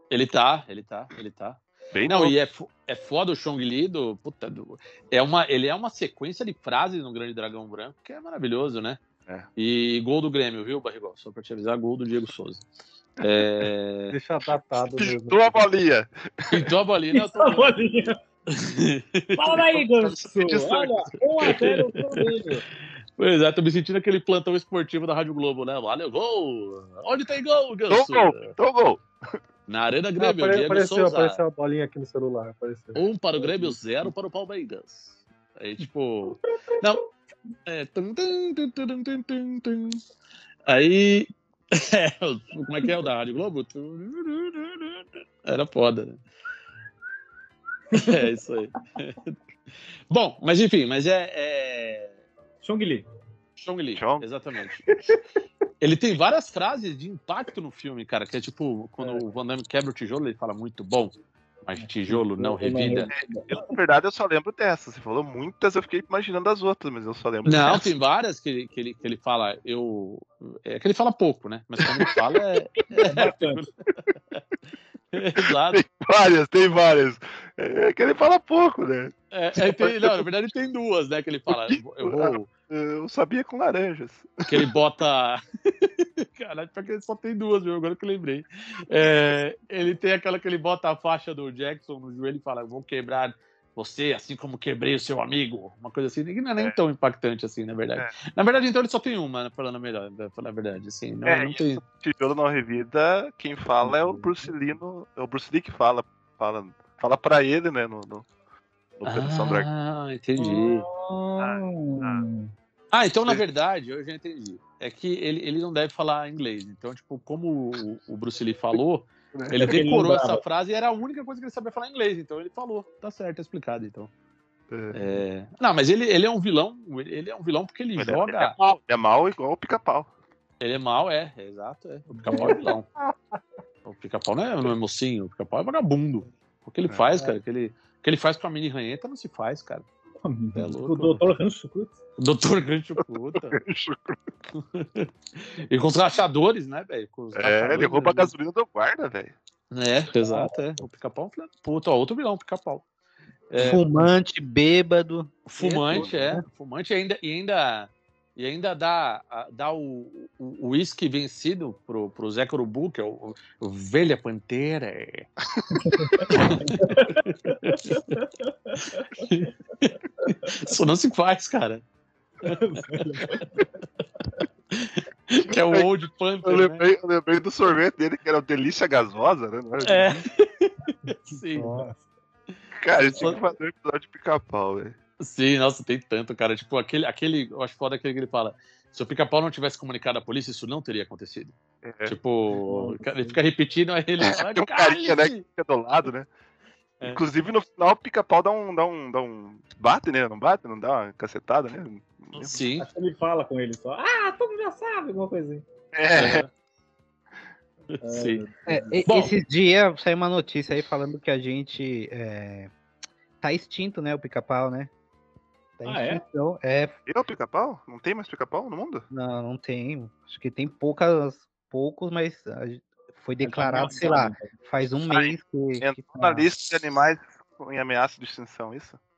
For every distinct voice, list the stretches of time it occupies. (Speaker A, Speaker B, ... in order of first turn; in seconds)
Speaker A: 0.1-9.0, 9.6-12.7, 13.2-14.1, 16.5-19.6, 21.4-22.2, 23.2-28.5, 29.7-31.4, 32.9-37.0, 37.7-40.0, 40.6-46.2, 47.9-52.2, 53.5-54.9, 55.8-63.1, 67.4-73.7, 75.1-75.8, 79.3-82.5, 84.5-101.8, 103.8-104.2, 109.0-110.8, 112.9-124.1, 124.9-128.6, 130.6-132.9, 133.8-139.9, 140.5-141.2, 142.2-143.6, 144.5-148.3, 149.7-152.8, 153.5-153.8, 155.5-165.3, 166.3-168.1, 169.2-171.8, 173.2-173.4, 174.7-176.8, 179.8-181.9, 183.1-183.4, 185.2-191.5, 192.1-195.4, 202.3-202.9, 206.1-206.5, 207.9-208.4, 209.0-209.3
Speaker B: 1.9-2.4, 15.0-16.7, 19.8-21.6, 27.9-29.4, 54.0-54.2, 63.1-67.9, 75.4-80.2, 81.5-84.6, 101.2-108.2, 109.0-109.7, 111.4-112.2, 119.3-119.6, 124.7-125.2, 128.0-130.1, 143.4-144.2, 147.3-149.3, 175.5-175.9, 176.4-180.2, 182.8-185.0, 191.8-192.2, 194.2-196.3, 197.0-202.6, 205.9-206.4, 217.1-219.1, 225.1-229.0
Speaker C: 14.1-15.6, 30.2-33.8, 132.5-133.4, 181.5-181.9
Speaker D: 17.1-18.2, 19.4-22.6, 47.9-48.3, 52.6-53.1, 61.8-63.7, 73.0-73.6, 110.4-112.5, 119.5-120.4, 132.3-132.5, 140.2-142.0, 150.2-150.6, 165.8-169.1, 170.2-170.5, 172.4-173.5, 192.6-193.4, 202.8-205.6, 208.0-209.0, 215.8-216.2, 223.4-224.6
Speaker E: 153.6-156.4, 208.7-212.7, 213.4-214.9, 215.8-217.0, 219.1-226.5